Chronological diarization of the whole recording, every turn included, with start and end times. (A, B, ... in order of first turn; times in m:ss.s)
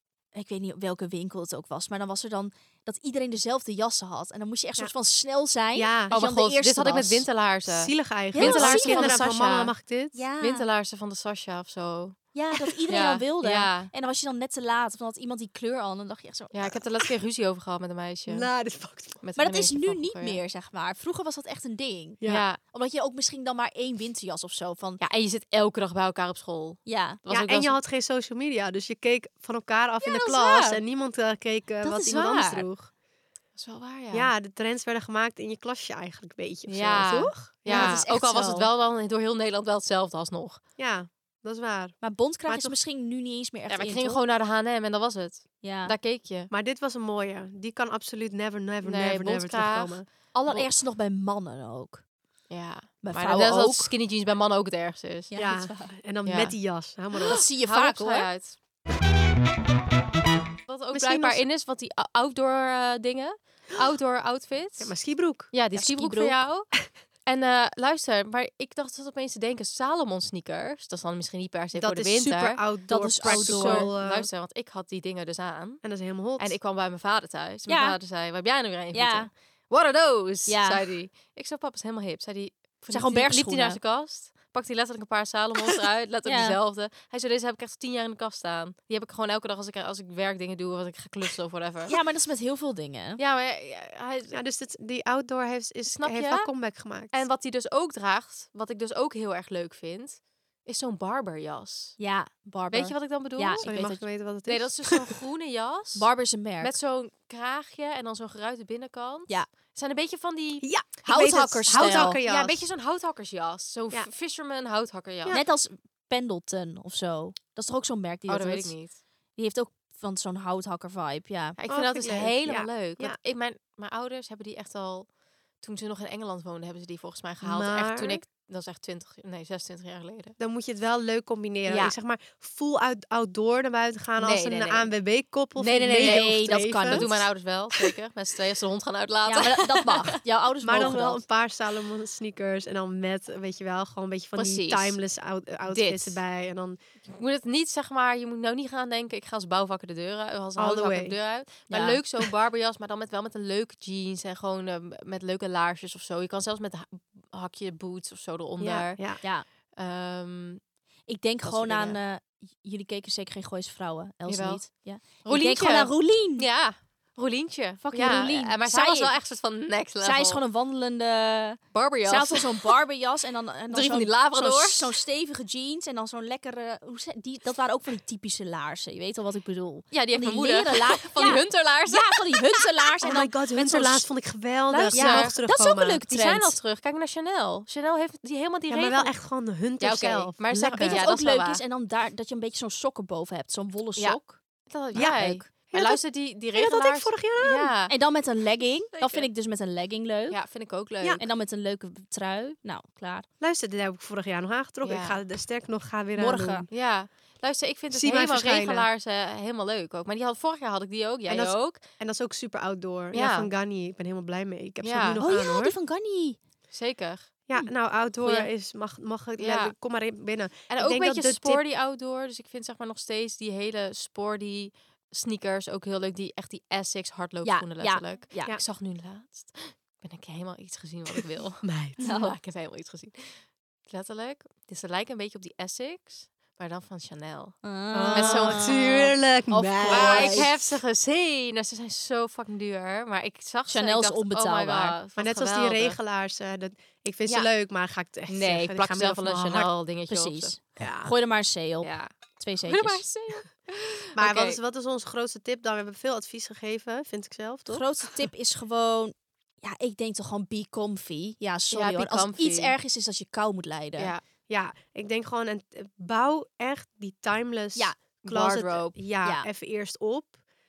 0:00.3-0:07.2 A
0:05.7-0:06.2 B
0:06.1-0:09.7 C
0:07.6-0:10.2 B
0:08.3-0:09.2 A
0:10.1-0:10.6 A
0:10.4-0:12.2 C
0:12.3-0:16.8 A
0:12.9-0:13.9 C
0:16.5-0:18.5 C
0:18.3-0:19.2 B
0:19.2-0:20.4 C
0:19.4-0:22.2 A
0:22.2-0:22.5 B
0:22.2-0:22.6 C
0:22.7-0:25.0 A
0:25.0-0:27.8 C
0:26.8-0:27.2 A
0:27.3-0:32.9 B
0:30.1-0:30.8 C
0:31.8-0:32.6 A
0:33.6-0:34.3 C
0:34.1-0:38.0 B
0:36.7-0:40.6 C
0:37.7-0:38.7 A
0:40.8-0:42.0 B
0:42.0-0:44.2 A
0:42.5-0:42.8 B
0:43.7-0:46.5 C
0:45.6-0:45.9 A
0:46.5-0:50.0 B
0:48.8-0:50.7 C
0:50.4-0:52.0 A
0:52.5-0:55.3 C
0:53.0-0:53.9 A
0:55.3-0:56.0 A
0:55.3-0:57.4 B
0:56.2-0:56.6 C
0:57.2-0:58.3 A
0:57.2-0:58.6 C
1:00.7-1:12.6 C
1:00.9-1:01.4 B
1:04.8-1:05.5 B
1:05.7-1:06.4 A
1:11.7-1:14.3 B
1:12.9-1:13.9 A
1:13.2-1:32.0 C
1:15.8-1:16.5 B
1:17.7-1:17.9 A
1:18.9-1:19.3 A
1:20.5-1:20.8 A
1:22.9-1:23.8 A
1:26.2-1:26.6 A
1:31.9-1:33.2 A
1:33.2-1:34.4 C
1:34.3-1:37.2 B
1:35.9-1:36.5 C
1:37.1-1:42.0 C
1:42.0-1:44.0 A
1:42.7-1:43.7 C
1:43.6-1:45.1 B
1:44.4-1:46.1 C
1:45.9-1:46.8 A
1:46.6-1:55.4 C
1:50.6-1:52.7 B
1:51.0-1:52.2 A
1:55.3-1:58.8 A
1:58.3-1:59.0 C
1:59.4-2:01.6 A
2:01.6-2:10.4 C
2:01.7-2:03.2 B
2:07.4-2:08.2 B
2:10.4-2:17.2 B
2:11.7-2:11.9 C
2:14.2-2:14.9 C
2:15.6-2:17.1 A
2:16.0-2:16.3 C
2:16.8-2:20.1 C
2:19.2-2:21.2 A
2:20.6-2:26.8 B
2:24.4-2:25.0 C
2:25.7-2:26.2 C
2:27.0-2:39.2 C
2:30.6-2:31.1 B
2:31.7-2:32.0 A
2:38.6-2:39.2 B
2:39.8-2:40.6 C
2:41.1-2:46.5 A
2:41.4-2:42.0 C
2:44.3-2:44.7 C
2:45.2-2:50.4 C
2:47.8-2:49.1 A
2:50.0-3:04.0 A
2:51.7-2:52.7 C
2:53.7-2:54.9 C
2:59.9-3:03.2 C
3:03.0-3:06.0 B
3:04.7-3:05.3 C
3:04.9-3:06.6 A
3:06.1-3:09.1 C
3:08.7-3:11.1 B
3:09.8-3:11.6 C
3:10.7-3:14.4 A
3:14.0-3:17.9 C
3:14.9-3:16.0 B
3:16.5-3:17.7 B
3:17.9-3:20.4 A
3:20.3-3:21.2 C
3:21.2-3:23.2 A
3:23.4-3:26.7 B
3:24.8-3:25.2 C
3:26.2-3:26.6 A
3:26.7-3:31.8 C
3:27.9-3:28.9 B
3:31.3-3:35.7 B
3:33.1-3:33.5 C
3:34.8-3:35.2 C
3:35.2-3:36.4 A
3:36.7-3:37.3 C
3:37.5-3:41.6 B
3:38.2-3:38.5 C
3:39.4-3:39.7 C
3:40.7-3:57.6 C
3:47.4-3:48.6 A
3:51.6-3:52.0 B
3:52.0-3:52.4 A
3:57.6-3:58.9 A
3:57.9-4:00.8 B
3:58.1-3:59.1 C
3:59.5-4:00.5 A
3:59.9-4:06.0 C
4:03.7-4:05.0 A
4:05.2-4:09.7 B
4:08.3-4:10.5 C
4:10.1-4:13.0 A
4:10.8-4:11.1 B
4:11.8-4:12.1 C
4:12.7-4:14.6 C
4:14.2-4:17.9 B
4:17.7-4:24.1 A
4:21.7-4:22.8 C
4:24.5-4:30.4 B
4:28.2-4:29.0 C